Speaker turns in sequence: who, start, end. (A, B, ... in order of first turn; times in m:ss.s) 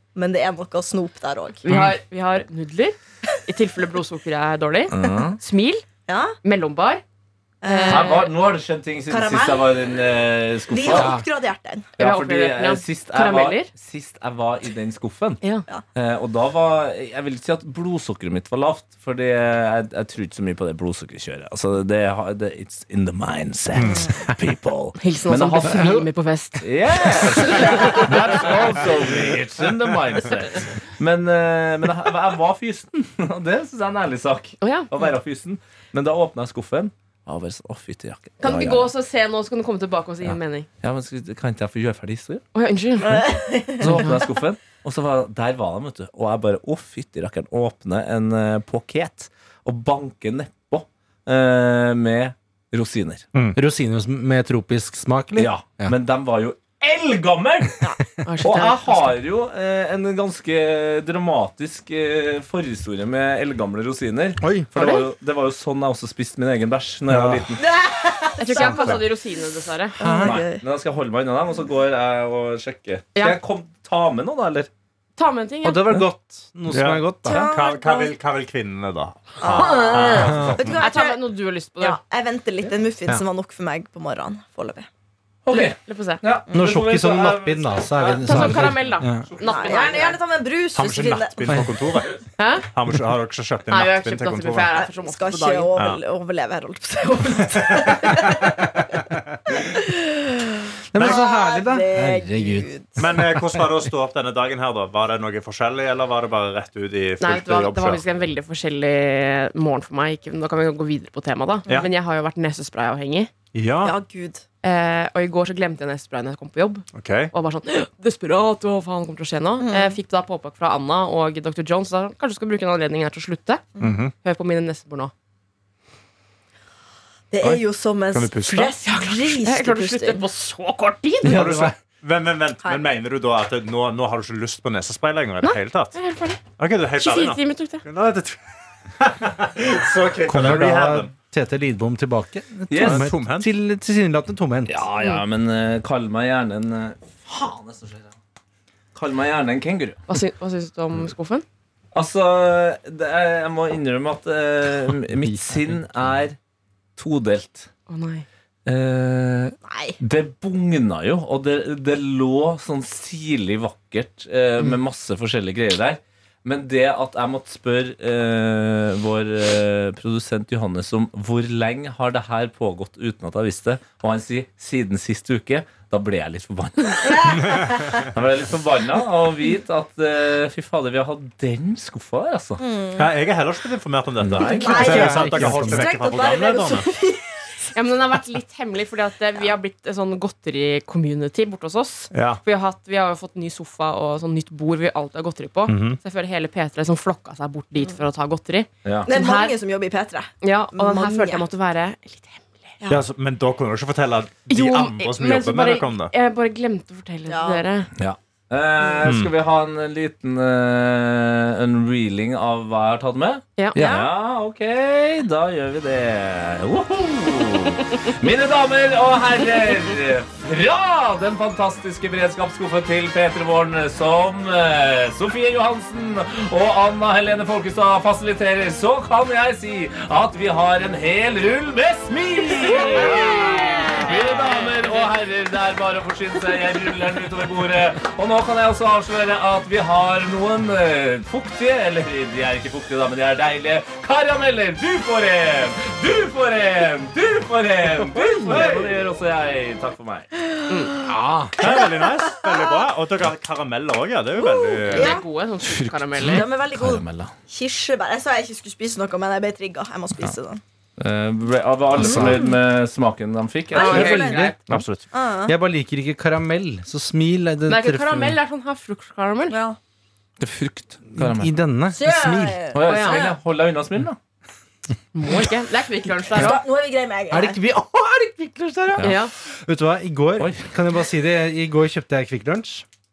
0:00.2-0:01.6 A
0:01.6-0:05.8 B
0:04.9-0:05.4 C
0:06.1-0:06.4 A
0:06.4-0:07.0 B
0:07.6-0:08.2 A
0:07.6-0:08.3 B
0:07.8-0:11.2 C
0:09.1-0:10.0 A
0:10.7-0:11.9 A
0:10.9-0:11.2 D
0:12.0-0:13.7 B
0:12.0-0:15.4 C
0:15.9-0:26.0 C
0:23.7-0:24.4 D
0:25.0-0:28.1 B
0:25.6-0:26.0 D
0:26.6-0:38.9 C
0:34.6-0:34.9 B
0:38.4-0:40.7 B
0:40.2-0:42.4 C
0:42.5-0:43.3 B
0:43.0-0:44.0 A
0:43.8-0:53.2 C
0:53.5-0:55.9 D
0:55.3-0:57.8 C
0:58.2-0:59.1 B
0:58.4-1:07.6 C
1:04.4-1:04.7 D
1:07.1-1:07.4 E
1:07.6-1:09.0 A
1:08.4-1:10.0 B
1:08.7-1:08.9 E
1:10.0-1:10.6 A
1:10.0-1:10.4 D
1:10.2-1:14.7 C
1:15.2-1:15.9 B
1:15.6-1:17.4 D
1:16.7-1:20.7 E
1:17.2-1:18.2 A
1:19.4-1:24.9 A
1:19.6-1:20.2 B
1:20.8-1:22.0 B
1:25.4-1:29.9 C
1:25.5-1:26.2 B
1:26.5-1:29.3 D
1:28.2-1:30.2 B
1:29.4-1:31.6 A
1:30.7-1:32.2 E
1:31.4-1:31.8 D
1:32.4-1:32.7 B
1:32.7-1:34.7 E
1:33.7-1:35.7 B
1:34.7-1:38.7 A
1:35.7-1:36.0 E
1:37.7-1:38.0 E
1:39.5-1:43.2 A
1:40.9-1:43.6 D
1:41.0-1:41.2 E
1:43.0-1:48.0 E
1:47.2-1:53.3 B
1:53.5-1:53.9 E
1:53.8-1:54.4 A
1:54.6-2:03.6 B
1:56.9-1:57.3 E
1:59.6-2:00.0 A
2:03.8-2:04.1 E
2:04.2-2:05.1 B
2:07.3-2:10.2 A
2:08.1-2:08.7 E
2:08.8-2:11.4 B
2:11.2-2:16.0 E
2:11.2-2:11.8 D
2:15.4-2:16.4 B
2:16.6-2:21.1 E
2:17.0-2:17.8 B
2:20.3-2:24.8 D
2:22.7-2:23.1 C
2:22.7-2:23.5 E
2:24.7-2:28.1 C
2:28.9-2:30.0 C
2:30.1-2:31.4 B
2:31.9-2:36.4 C
2:35.2-2:35.7 D
2:37.0-2:37.7 C
2:37.9-2:38.2 B
2:38.6-3:02.6 C
2:39.7-2:40.0 A
2:57.0-2:58.0 A
3:02.6-3:03.2 A
3:03.0-3:06.9 E
3:04.2-3:04.9 C
3:04.4-3:07.4 A
3:04.7-3:05.9 D
3:07.7-3:19.5 B
3:12.1-3:12.4 E
3:15.7-3:16.0 D
3:19.0-3:21.4 A
3:20.4-3:22.7 B
3:22.8-3:23.0 A
3:22.9-3:26.1 E
3:24.5-3:27.9 B
3:27.3-3:27.6 A
3:28.0-4:10.3 C
3:29.0-3:29.3 E
3:33.7-3:34.1 A
3:53.1-3:54.1 A
3:53.1-3:54.7 B
4:08.5-4:08.8 D
4:11.0-4:11.6 D
4:11.6-4:15.2 E
4:11.6-4:12.8 A
4:14.4-4:15.2 A
4:14.9-4:16.4 B
4:15.6-4:17.3 C
4:16.2-4:20.6 A
4:21.0-4:24.2 C
4:22.0-4:22.4 D
4:22.0-4:22.5 A
4:23.7-4:24.6 A
4:23.8-4:24.6 B
4:23.8-4:24.9 D
4:24.7-4:25.0 E
4:25.1-4:25.5 A
4:25.4-4:28.4 D
4:27.7-4:29.6 B
4:29.5-4:29.8 A
4:30.4-4:31.5 C
4:31.1-4:32.7 D
4:31.9-4:33.4 A
4:32.7-4:34.2 C
4:32.8-4:33.3 B
4:35.1-4:36.6 B
4:36.3-4:37.6 A
4:37.3-4:42.8 D
4:39.0-4:39.3 B
4:40.4-4:40.7 C